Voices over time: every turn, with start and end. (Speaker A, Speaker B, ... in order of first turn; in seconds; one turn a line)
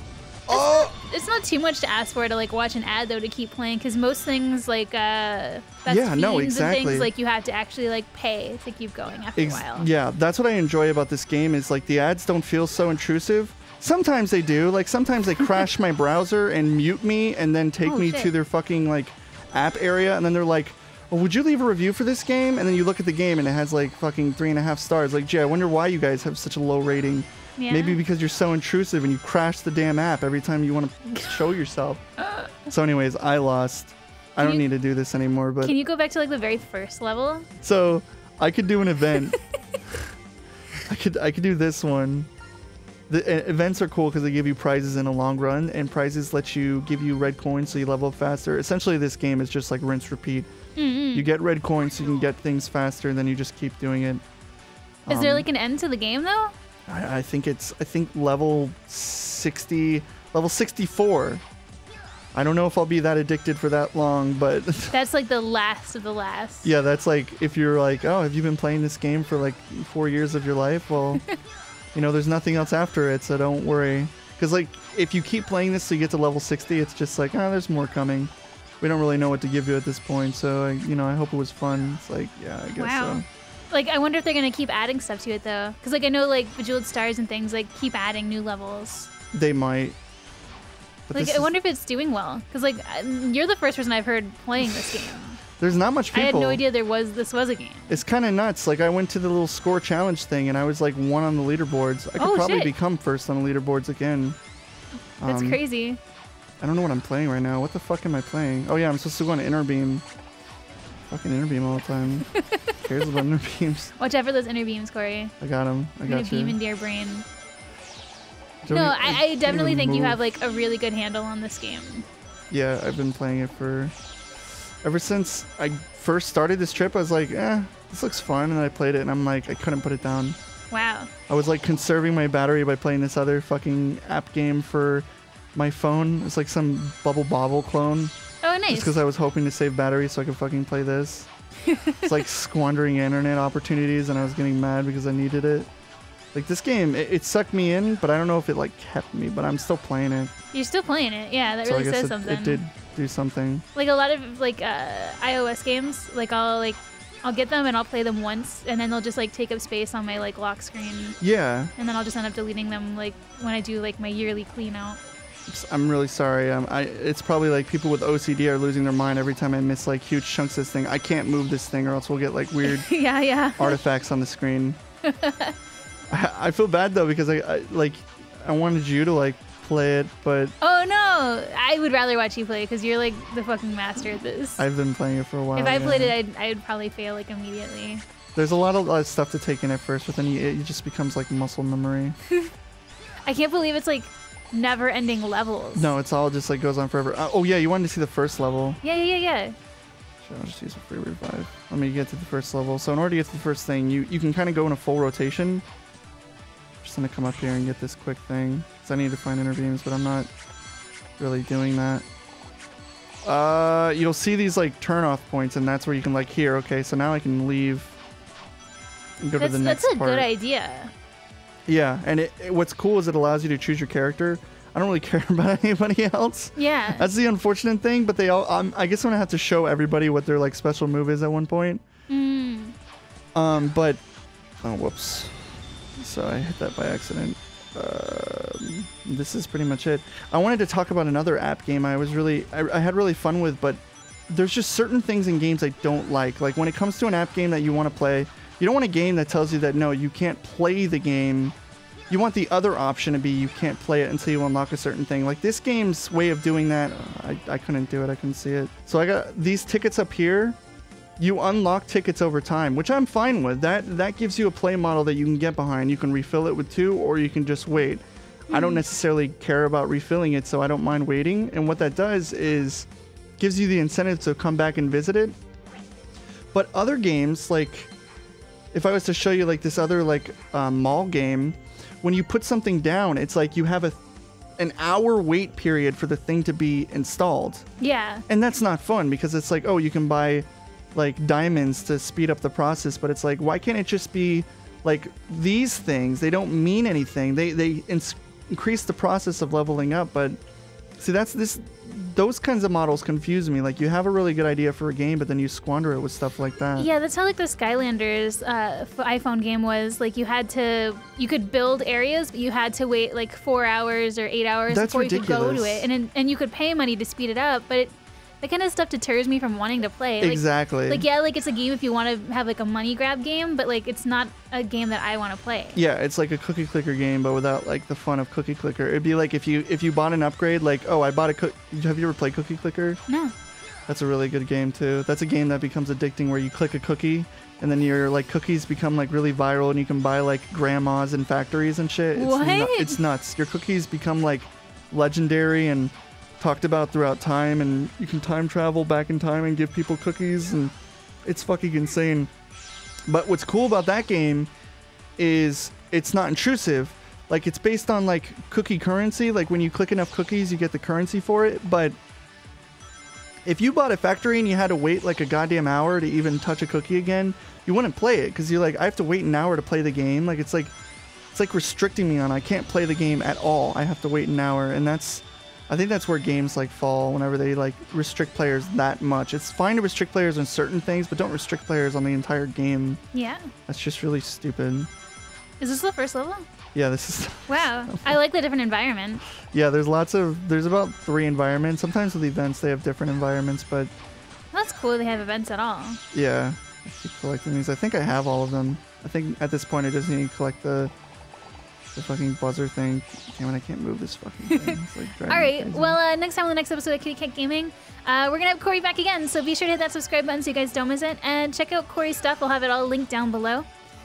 Speaker A: 0.5-0.9
Speaker B: 0.5-9.9
Speaker A: 5.9-7.1
Speaker A: 9.4-32.0
Speaker B: 17.9-18.3
Speaker B: 27.6-28.0
Speaker B: 32.2-32.5
Speaker A: 32.7-35.8
Speaker B: 34.4-34.7
Speaker B: 35.6-37.5
Speaker A: 37.6-40.1
Speaker A: 40.9-42.3
Speaker A: 43.1-50.5
Speaker B: 50.8-51.3
Speaker A: 51.1-54.2
Speaker A: 55.1-55.5
Speaker B: 55.1-56.5
Speaker A: 56.9-61.4
Speaker A: 62.3-65.0
Speaker B: 64.9-66.7
Speaker A: 66.6-71.2
Speaker A: 71.9-83.2
Speaker B: 82.8-89.1
Speaker A: 89.3-90.0
Speaker A: 91.1-91.5
Speaker B: 91.1-95.4
Speaker A: 94.6-96.6
Speaker B: 96.1-98.0
Speaker A: 97.9-104.4
Speaker B: 102.2-102.7
Speaker A: 105.2-105.6
Speaker B: 105.2-106.0
Speaker A: 106.6-110.0
Speaker A: 111.1-113.9
Speaker B: 112.3-112.8
Speaker B: 114.0-115.3
Speaker A: 115.4-116.6
Speaker B: 116.0-117.3
Speaker A: 118.6-120.2
Speaker B: 118.7-122.1
Speaker A: 122.5-123.9
Speaker A: 124.8-130.4
Speaker B: 130.7-131.1
Speaker A: 131.3-138.1
Speaker B: 138.4-139.0
Speaker A: 138.7-141.3
Speaker B: 141.7-142.2
Speaker A: 142.0-145.7
Speaker A: 146.3-150.3
Speaker B: 150.5-152.6
Speaker A: 151.6-153.7
Speaker B: 153.8-161.2
Speaker A: 161.2-161.7
Speaker B: 161.8-165.0
Speaker A: 165.5-172.9
Speaker B: 172.6-173.8
Speaker A: 173.6-174.8
Speaker B: 175.0-175.6
Speaker A: 176.1-180.5
Speaker B: 180.6-184.7
Speaker A: 184.6-186.2
Speaker B: 185.6-188.0
Speaker A: 188.3-192.2
Speaker B: 193.2-195.9
Speaker A: 195.8-198.8
Speaker B: 198.8-199.6
Speaker A: 200.2-205.6
Speaker A: 206.8-210.3
Speaker A: 211.2-212.1
Speaker A: 213.2-218.0
Speaker A: 219.2-220.3
Speaker B: 219.4-220.9
Speaker A: 221.7-231.8
Speaker B: 226.6-227.1
Speaker B: 232.1-232.8
Speaker A: 233.3-234.0
Speaker A: 234.6-251.6
Speaker A: 252.1-260.6
Speaker A: 261.2-272.9
Speaker B: 268.5-268.8
Speaker A: 273.4-275.4
Speaker A: 276.5-277.9
Speaker A: 278.7-284.0
Speaker A: 284.6-287.7
Speaker B: 287.8-288.2
Speaker A: 288.3-300.4
Speaker A: 301.0-306.9
Speaker B: 306.8-325.8
Speaker A: 314.7-315.9
Speaker A: 320.2-321.1
Speaker A: 325.8-333.0
Speaker B: 333.1-333.3
Speaker A: 333.9-350.7
Speaker B: 342.1-343.0
Speaker A: 351.2-352.3
Speaker A: 353.1-354.5
Speaker A: 355.2-362.0
Speaker A: 363.5-370.7
Speaker A: 371.3-383.0
Speaker B: 383.1-383.5
Speaker A: 383.7-384.9
Speaker B: 385.6-386.4
Speaker A: 386.7-388.2
Speaker B: 387.5-389.2
Speaker A: 389.5-393.9
Speaker B: 394.5-396.0
Speaker A: 396.1-400.9
Speaker A: 401.9-406.0
Speaker B: 404.5-413.7